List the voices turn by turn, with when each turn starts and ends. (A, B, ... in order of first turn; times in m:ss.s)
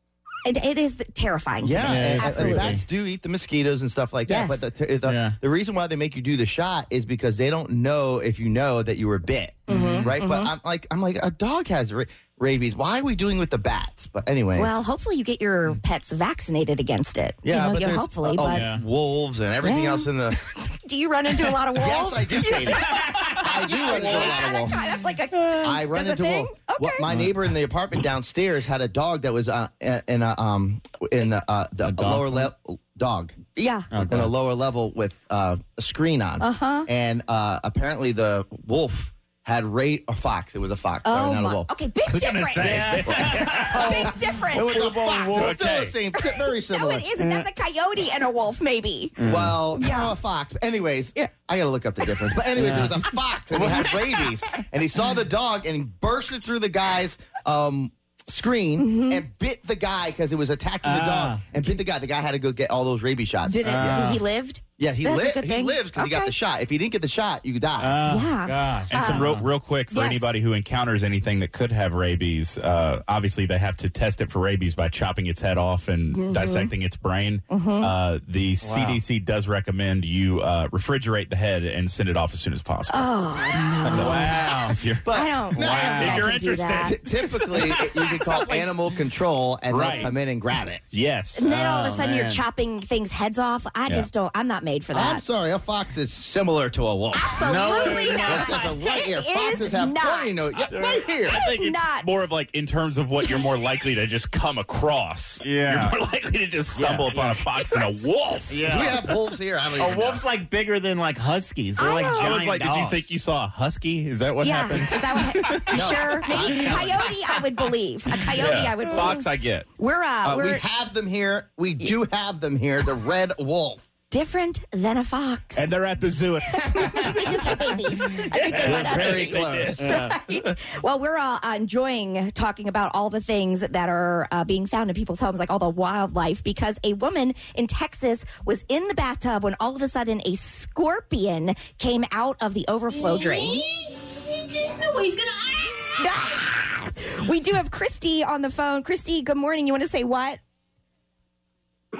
0:00.4-0:02.8 A
0:01.6-0:14.8 B
0:01.8-0:02.8 C
0:04.3-0:04.6 A
0:05.0-0:05.4 C
0:09.7-0:10.1 C
0:09.7-0:10.5 A
0:14.5-0:18.7 A
0:17.4-0:20.4 B
0:18.5-0:18.8 C
0:19.6-0:27.1 A
0:21.8-0:24.8 B
0:22.7-0:24.2 C
0:25.6-0:33.3 B
0:27.1-0:27.4 C
0:31.8-0:32.5 C
0:33.5-0:33.9 A
0:33.9-0:34.3 C
0:34.0-0:41.7 B
0:36.4-0:36.9 A
0:41.0-0:43.0 A
0:42.1-0:43.9 D
0:42.6-0:45.6 C
0:43.0-0:47.1 B
0:43.7-0:44.9 A
0:45.4-0:45.9 D
0:46.2-0:50.1 A
0:47.2-0:47.5 C
0:49.2-0:49.6 C
0:49.2-1:04.2 B
0:52.6-0:54.3 C
0:58.8-0:59.2 A
1:00.8-1:01.5 C
1:03.4-1:06.3 A
1:03.6-1:04.2 C
1:04.8-1:08.0 B
1:07.8-1:09.5 C
1:08.0-1:09.3 A
1:08.9-1:23.1 D
1:09.9-1:10.3 A
1:16.1-1:16.7 A
1:17.5-1:17.9 A
1:18.6-1:19.0 C
1:22.9-1:26.9 A
1:23.8-1:27.8 D
1:23.9-1:24.6 C
1:25.0-1:26.3 B
1:25.6-1:26.2 C
1:26.8-1:30.8 B
1:28.2-1:28.7 A
1:29.7-1:30.1 D
1:30.9-1:31.5 D
1:31.3-1:35.2 A
1:31.4-1:32.4 C
1:34.9-1:41.4 B
1:37.1-1:40.6 A
1:37.4-1:38.7 C
1:40.7-1:41.2 C
1:41.3-1:42.1 A
1:41.3-1:48.7 D
1:45.4-1:46.0 C
1:46.7-1:47.4 C
1:47.5-1:48.1 A
1:48.5-1:49.2 C
1:48.6-1:50.2 B
1:49.7-1:53.1 C
1:51.8-1:52.4 A
1:52.0-1:55.8 D
1:54.4-1:59.3 A
1:55.7-1:57.1 B
1:56.4-1:57.0 C
1:58.3-1:59.6 D
1:59.8-2:00.6 A
2:00.2-2:03.8 B
2:04.1-2:05.7 A
2:05.5-2:10.6 D
2:06.5-2:23.6 A
2:08.5-2:09.9 B
2:26.0-2:30.4 A